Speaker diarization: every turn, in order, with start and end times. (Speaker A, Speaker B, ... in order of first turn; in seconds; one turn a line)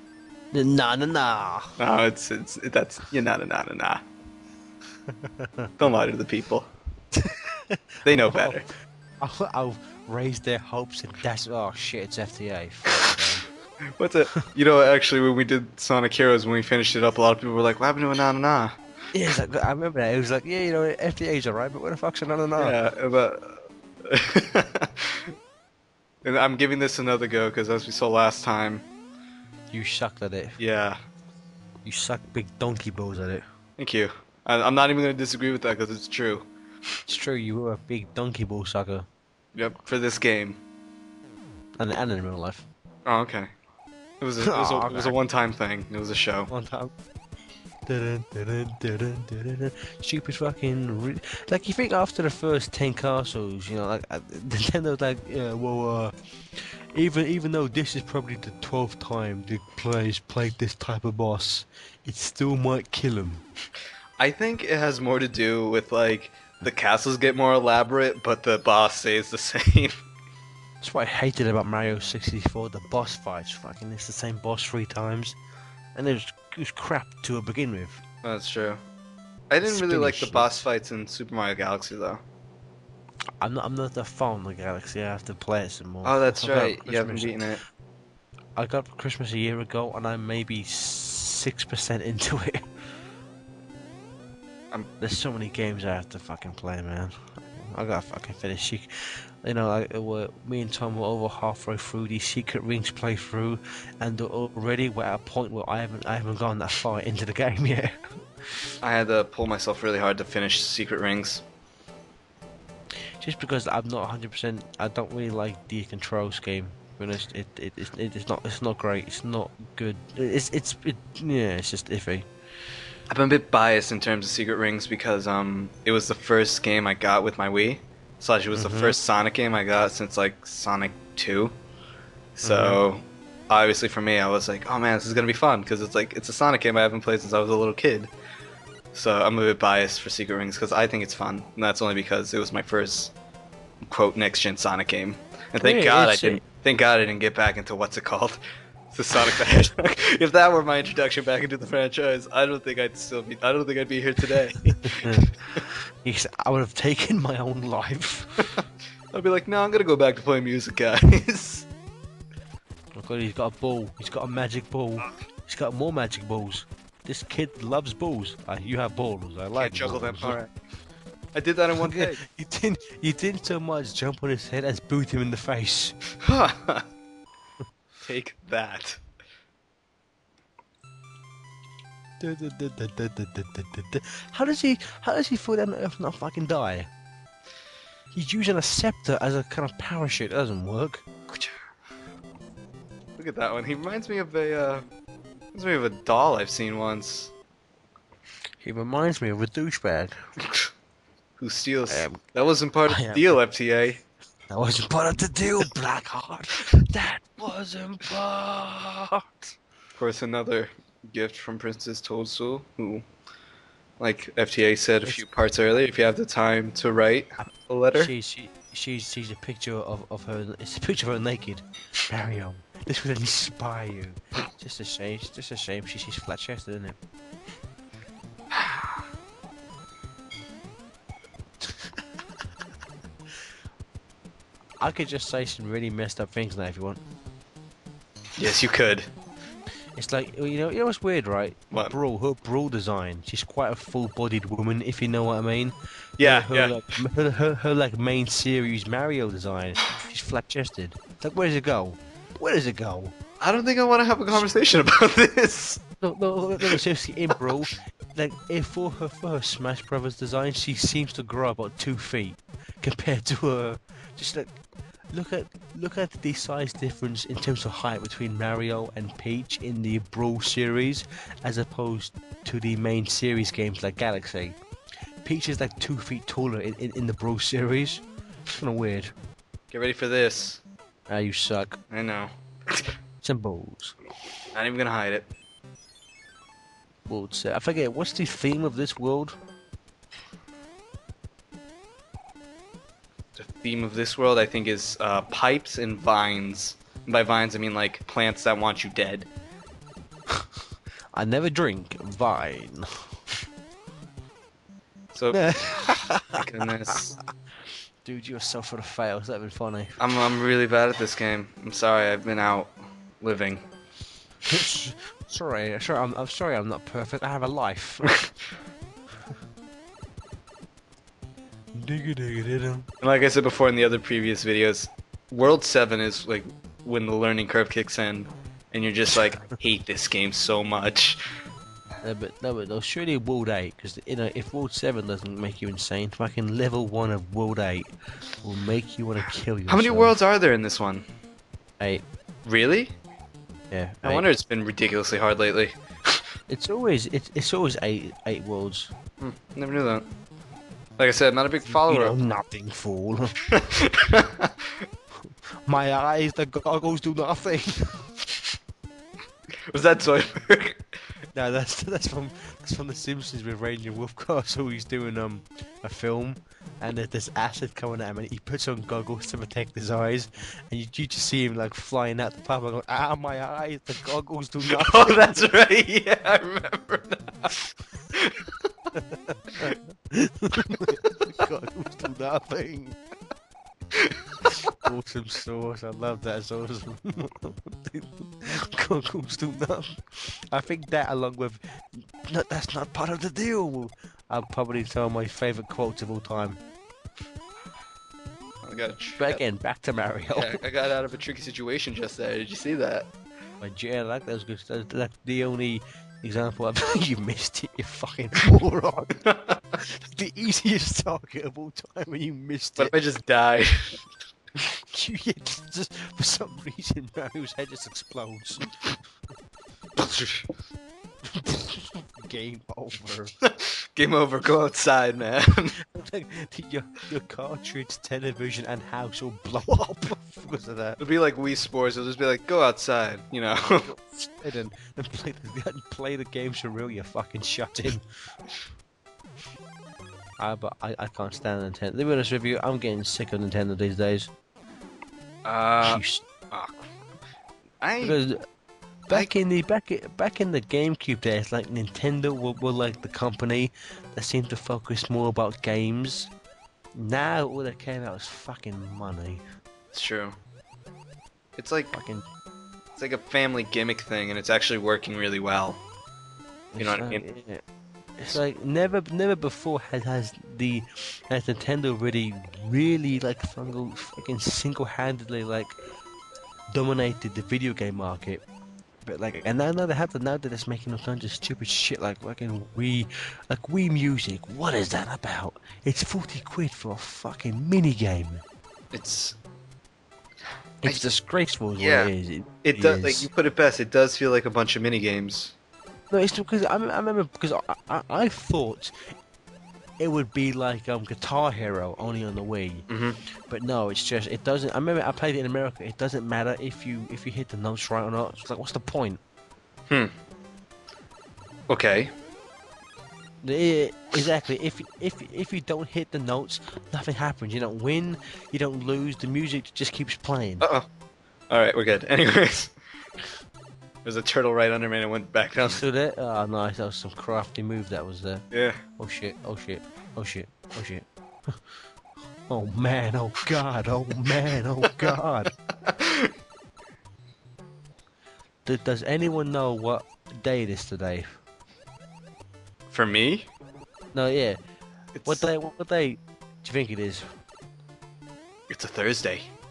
Speaker A: 0.5-1.8
Speaker B: 1.8-4.0
Speaker A: 5.1-5.9
Speaker B: 5.8-6.7
Speaker A: 7.7-8.7
Speaker B: 8.0-8.7
Speaker A: 9.2-13.4
Speaker B: 14.0-18.8
Speaker A: 19.1-22.8
Speaker B: 22.6-25.1
Speaker B: 26.2-28.8
Speaker A: 29.7-30.6
Speaker B: 30.6-31.0
Speaker A: 31.9-33.4
Speaker B: 33.8-36.5
Speaker A: 37.1-39.0
Speaker B: 39.5-40.6
Speaker A: 41.8-42.7
Speaker B: 43.0-43.5
Speaker B: 44.2-46.5
Speaker A: 44.4-45.2
Speaker A: 46.5-46.9
Speaker A: 47.9-63.4
Speaker B: 64.2-70.0
Speaker A: 70.8-75.4
Speaker A: 76.0-78.0
Speaker B: 78.2-78.8
Speaker B: 79.5-82.2
Speaker A: 79.6-80.7
Speaker A: 83.4-87.4
Speaker B: 86.0-87.6
Speaker A: 88.6-92.6
Speaker A: 95.0-98.9
Speaker A: 99.4-108.0
Speaker B: 108.8-111.4
Speaker A: 113.2-122.3
Speaker B: 123.1-131.5
Speaker A: 128.5-128.9
Speaker B: 132.4-138.1
Speaker A: 132.4-132.8
Speaker B: 138.9-143.1
Speaker B: 143.8-148.4
Speaker A: 145.6-146.4
Speaker B: 148.9-155.6
Speaker A: 154.9-155.2
Speaker A: 156.0-158.4
Speaker B: 159.1-161.7
Speaker A: 162.9-170.4
Speaker B: 169.6-170.5
Speaker B: 171.3-172.2
Speaker A: 171.8-175.9
Speaker B: 176.2-176.8
Speaker B: 178.0-179.0
Speaker A: 182.2-186.9
Speaker A: 188.1-191.1
Speaker B: 193.2-194.8
Speaker B: 195.5-197.3
Speaker A: 198.6-200.1
Speaker B: 201.4-204.0
Speaker A: 201.9-202.2
Speaker A: 202.9-203.2
Speaker A: 204.5-209.3
Speaker B: 209.9-213.1
Speaker B: 214.0-218.1
Speaker A: 217.9-227.0
Speaker A: 231.6-231.9
Speaker A: 234.8-237.0
Speaker B: 238.4-239.1
Speaker A: 239.9-253.1
Speaker B: 246.2-246.8
Speaker B: 253.4-255.8
Speaker A: 256.0-264.6
Speaker A: 265.1-274.6
Speaker A: 275.2-279.1
Speaker B: 279.7-280.6
Speaker A: 281.1-281.8
Speaker B: 281.9-282.8
Speaker A: 283.2-284.0
Speaker B: 284.5-285.3
Speaker A: 287.1-289.4
Speaker B: 293.4-299.3
Speaker A: 301.1-303.1
Speaker B: 305.1-305.4
Speaker A: 305.3-306.9
Speaker B: 306.3-307.2
Speaker A: 308.0-310.0
Speaker B: 310.0-313.6
Speaker A: 314.5-318.1
Speaker A: 321.8-322.9
Speaker B: 323.0-331.2
Speaker A: 329.1-329.6
Speaker A: 332.0-340.1
Speaker B: 339.7-341.1
Speaker A: 341.8-342.1
Speaker B: 342.4-342.9
Speaker A: 343.7-344.2
Speaker B: 344.0-345.8
Speaker A: 346.5-348.9
Speaker B: 349.2-350.1
Speaker B: 351.0-352.1
Speaker A: 351.7-353.3
Speaker B: 353.5-354.8
Speaker A: 355.2-358.1
Speaker B: 359.7-360.8
Speaker A: 361.3-375.5
Speaker B: 374.7-377.5
Speaker B: 378.1-378.5
Speaker A: 378.9-383.0
Speaker B: 384.1-384.5
Speaker A: 384.8-396.6
Speaker B: 398.6-399.4
Speaker A: 399.2-400.6
Speaker B: 400.3-403.1
Speaker A: 403.6-409.2
Speaker A: 409.8-412.9
Speaker B: 412.8-414.0
Speaker A: 414.9-418.7
Speaker B: 420.0-420.5
Speaker A: 421.3-423.3
Speaker B: 423.4-425.8
Speaker A: 425.9-431.0
Speaker B: 431.0-433.9
Speaker A: 433.8-438.0
Speaker A: 440.4-444.3
Speaker B: 445.4-446.8
Speaker A: 445.8-446.2
Speaker B: 447.8-448.2
Speaker A: 448.0-448.4
Speaker A: 449.1-456.3
Speaker A: 456.9-459.4
Speaker B: 459.9-460.3
Speaker B: 461.6-461.9
Speaker A: 461.9-462.2
Speaker B: 462.9-465.8
Speaker A: 466.7-467.6
Speaker B: 466.8-467.2
Speaker A: 468.2-475.8
Speaker A: 476.7-478.4
Speaker A: 479.0-488.4
Speaker B: 488.9-489.4
Speaker A: 490.8-493.3
Speaker B: 491.8-492.1
Speaker B: 492.6-495.5
Speaker A: 496.1-498.9
Speaker A: 500.0-502.9
Speaker B: 502.9-503.2
Speaker A: 503.5-509.2
Speaker B: 511.7-512.1
Speaker A: 513.4-520.6
Speaker B: 520.6-520.9
Speaker B: 521.5-522.8
Speaker B: 524.0-525.8
Speaker A: 525.6-528.4
Speaker B: 528.5-528.8
Speaker A: 529.0-531.6
Speaker A: 532.5-535.5
Speaker B: 535.8-536.3
Speaker A: 538.6-541.3
Speaker B: 542.9-543.5
Speaker A: 544.1-544.6
Speaker B: 545.1-545.5
Speaker A: 545.2-547.2
Speaker B: 548.7-549.5